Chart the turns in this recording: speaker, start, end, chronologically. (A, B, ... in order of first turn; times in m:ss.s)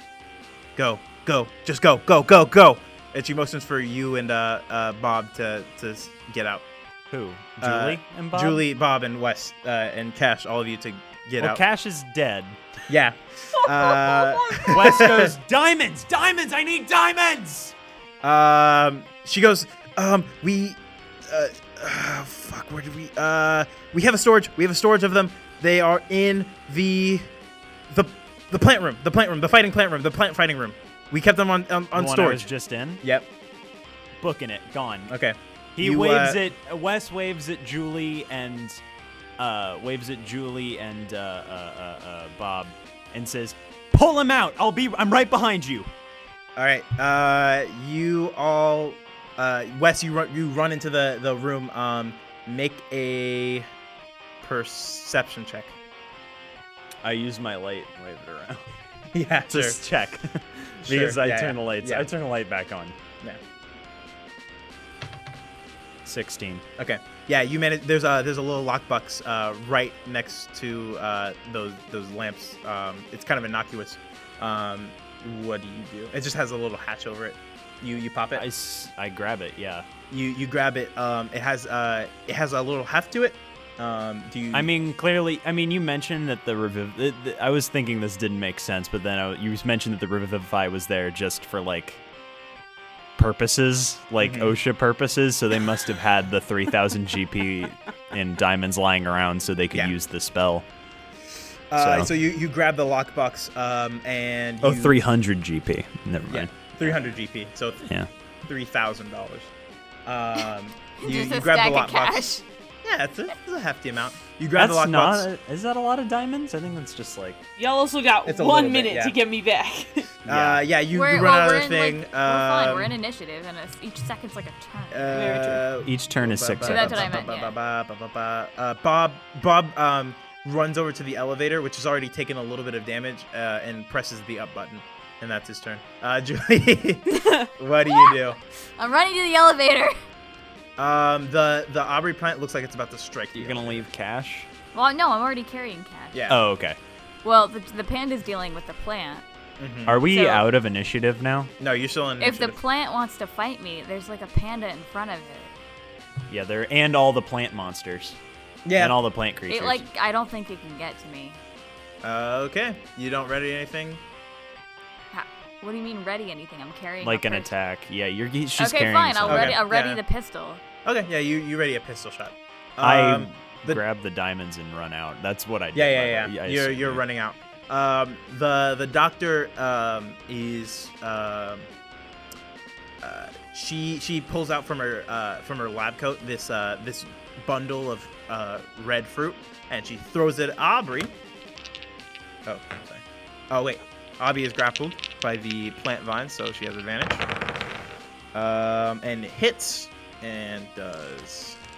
0:00.8-0:06.6 A
0:07.1-0:08.6 B
0:07.6-0:11.6 A
0:11.4-0:12.6 B
0:12.9-0:15.3 A
0:13.5-0:15.2 C
0:14.7-0:17.7 B
0:18.2-0:27.3 A
0:27.9-0:32.4 A
0:31.9-0:33.0 B
0:33.0-0:33.3 A
0:34.2-0:35.1 B
0:35.1-0:36.4 A
0:35.8-0:38.8 B
0:39.4-0:45.9 B
0:46.6-0:53.7 A
0:54.4-0:55.8 A
0:57.0-0:58.7 B
0:59.1-0:59.8 A
0:59.5-1:03.0 B
1:00.9-1:02.1 A
1:06.0-1:06.6 B
1:06.8-1:18.4 A
1:18.4-1:19.9 B
1:20.1-1:24.7 A
1:24.5-1:32.0 B
1:33.2-1:40.7 B
1:34.2-1:34.5 A
1:41.7-1:45.0 A
1:41.8-1:42.1 B
1:44.6-1:47.0 B
1:46.3-1:47.8 A
1:47.8-1:48.1 B
1:48.5-1:49.5 A
1:50.1-1:55.3 A
1:51.0-1:52.4 D
1:54.5-1:57.4 B
1:57.6-2:00.1 C
1:58.3-1:59.2 A
2:00.3-2:00.6 B
2:00.3-2:02.9 A
2:00.9-2:05.4 D
2:04.9-2:18.4 A
2:05.1-2:05.6 C
2:05.8-2:07.2 B
2:06.6-2:07.5 D
2:17.1-2:17.5 C
2:18.8-2:20.0 D
2:20.8-2:23.8 A
2:23.4-2:24.5 B
2:24.7-2:26.3 D
2:26.1-2:26.4 A
2:26.3-2:26.8 B
2:27.2-2:29.2 D
2:29.6-2:30.0 A
2:29.9-2:31.5 B
2:30.1-2:30.4 D
2:31.6-2:32.6 A
2:32.2-2:35.5 D
2:36.3-2:38.2 B
2:38.6-2:39.0 A
2:38.8-2:39.8 B
2:39.5-2:41.4 D
2:42.0-2:44.0 A
2:45.1-2:47.5 D
2:47.0-2:49.6 B
2:48.6-2:50.6 D
2:49.3-2:50.0 A
2:50.8-2:53.8 A
2:52.8-2:57.0 B
2:55.8-3:01.7 A
3:03.0-3:11.1 A
3:12.4-3:17.3 A
3:18.3-3:21.6 A